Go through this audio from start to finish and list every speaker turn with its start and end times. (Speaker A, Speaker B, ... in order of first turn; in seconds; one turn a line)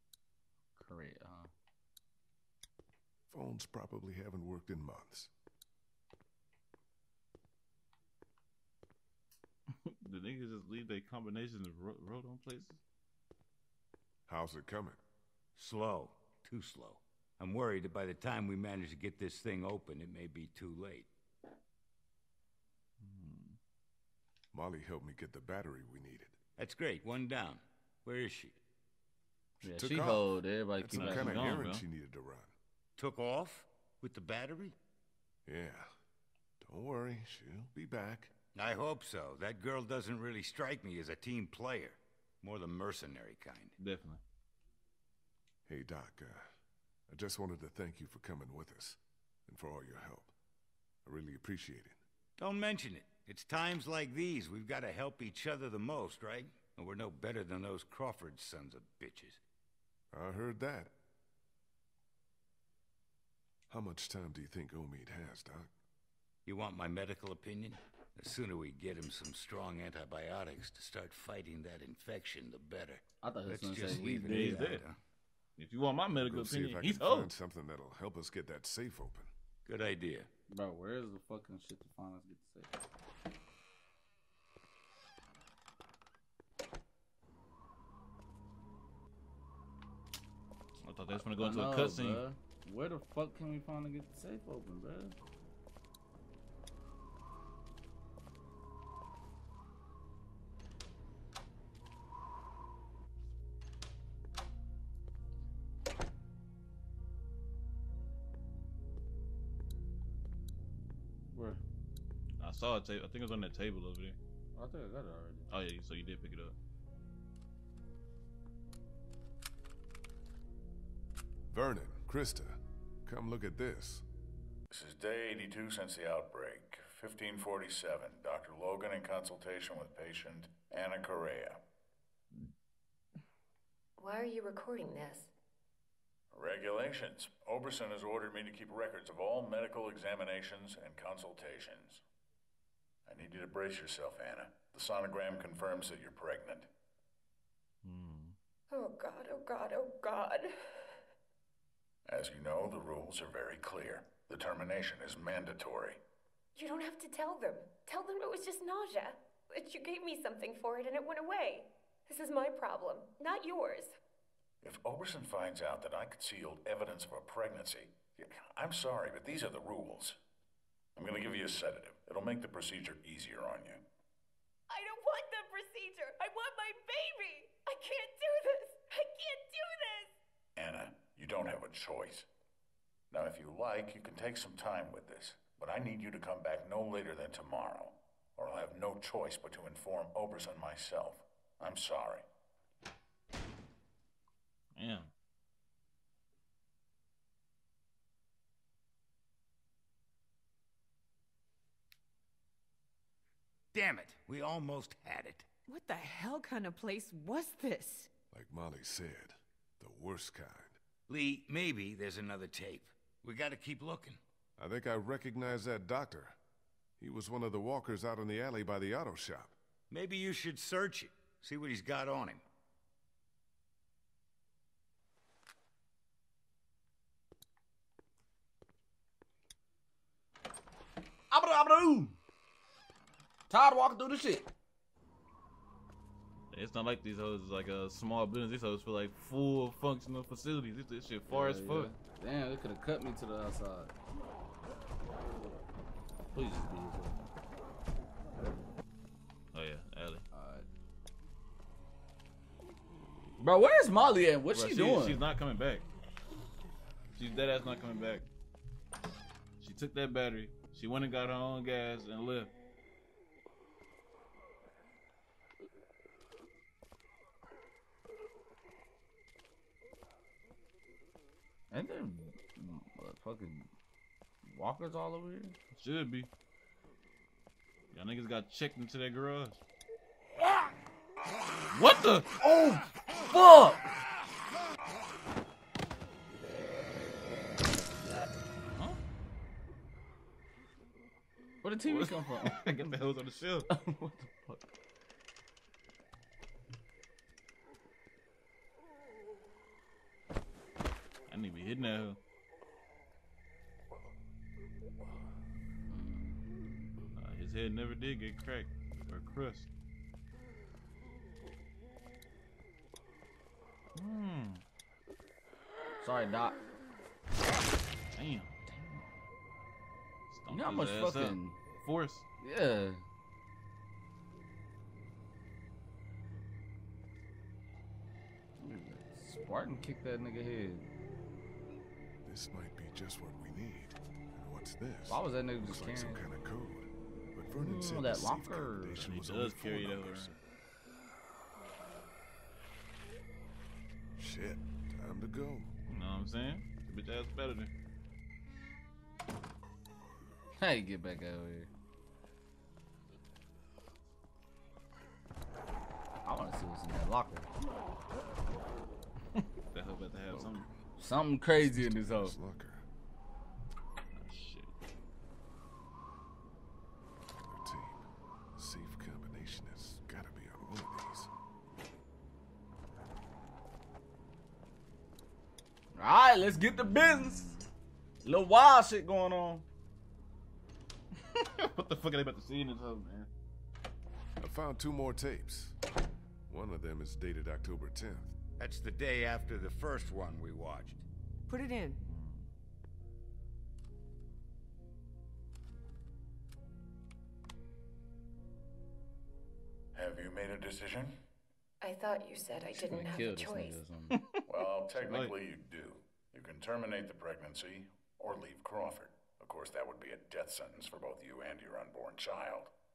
Speaker A: 0.8-1.5
Speaker B: 3.3-5.3
Speaker C: 9.7-12.8
Speaker B: 14.3-15.0
Speaker D: 15.6-21.1
Speaker C: 23.0-23.6
Speaker B: 24.5-26.4
Speaker D: 26.6-28.6
Speaker B: 29.6-32.5
Speaker A: 29.6-31.6
Speaker C: 30.9-31.8
Speaker D: 33.0-34.8
Speaker B: 35.5-35.9
Speaker B: 36.6-38.3
Speaker D: 38.5-43.7
Speaker C: 43.8-44.2
Speaker B: 45.7-46.5
Speaker B: 47.1-50.3
Speaker B: 51.0-52.0
Speaker D: 52.4-59.4
Speaker B: 60.1-60.9
Speaker B: 63.7-65.7
Speaker D: 66.5-75.0
Speaker A: 73.2-74.8
Speaker C: 74.1-74.8
Speaker C: 75.6-77.3
Speaker B: 76.1-79.3
Speaker D: 79.6-80.3
Speaker A: 80.5-82.7
Speaker C: 90.8-92.2
Speaker A: 91.1-95.1
Speaker A: 111.3-111.6
Speaker C: 112.4-114.2
Speaker A: 114.5-115.5
Speaker C: 115.5-116.5
Speaker B: 121.5-124.0
Speaker E: 124.7-131.6
Speaker F: 134.0-135.3
Speaker E: 136.3-142.0
Speaker E: 143.1-146.7
Speaker C: 147.8-148.3
Speaker F: 148.7-150.5
Speaker E: 152.0-156.0
Speaker F: 156.6-163.9
Speaker E: 164.6-170.2
Speaker E: 170.9-173.8
Speaker F: 174.7-180.1
Speaker E: 180.6-182.3
Speaker E: 183.1-192.2
Speaker C: 194.8-195.1
Speaker D: 203.7-205.5
Speaker G: 205.7-208.1
Speaker B: 208.3-210.8
Speaker D: 211.1-214.2
Speaker B: 214.6-216.3
Speaker B: 217.0-219.6
Speaker D: 219.9-222.4
Speaker A: 231.3-232.2
Speaker A: 233.5-234.5
Speaker C: 236.5-241.9
Speaker A: 241.3-243.9
Speaker A: 246.3-247.2
Speaker C: 249.5-250.2
Speaker A: 250.3-250.7
Speaker A: 253.4-255.2
Speaker C: 254.5-255.8
Speaker C: 257.1-258.2
Speaker C: 259.6-262.5
Speaker A: 271.7-273.7
Speaker A: 274.4-275.5
Speaker C: 275.7-276.3
Speaker C: 277.9-279.6
Speaker C: 281.7-282.3
Speaker A: 282.4-283.9
Speaker A: 291.6-293.0
Speaker C: 291.8-293.7
Speaker A: 293.7-294.6
Speaker C: 301.3-302.2
Speaker A: 305.9-306.4
Speaker C: 307.1-309.7
Speaker C: 313.9-314.6
Speaker A: 316.0-316.6
Speaker C: 318.1-318.5
Speaker A: 318.7-319.1
Speaker C: 320.3-322.2
Speaker A: 320.5-321.6
Speaker A: 322.4-323.0
Speaker A: 328.6-330.9
Speaker B: 332.2-340.4
Speaker A: 335.1-336.2
Speaker A: 337.6-339.1
Speaker C: 339.0-340.4
Speaker B: 344.1-345.7
Speaker C: 345.9-347.7
Speaker A: 350.6-351.7
Speaker A: 356.2-357.5
Speaker C: 359.4-360.6
Speaker B: 360.3-360.8
Speaker A: 361.0-362.4
Speaker B: 361.5-362.8
Speaker C: 364.1-364.7
Speaker B: 367.4-368.0
Speaker B: 368.5-371.3
Speaker A: 375.9-377.6
Speaker C: 377.2-377.6
Speaker A: 378.2-379.6
Speaker C: 381.2-383.3
Speaker B: 384.4-385.8
Speaker B: 386.5-388.3
Speaker D: 388.6-391.0
Speaker G: 391.5-392.0
Speaker C: 392.0-392.5
Speaker E: 399.9-401.2
Speaker F: 401.8-403.8
Speaker A: 402.7-404.2
Speaker C: 404.1-404.4
Speaker E: 404.5-412.7
Speaker C: 404.9-405.3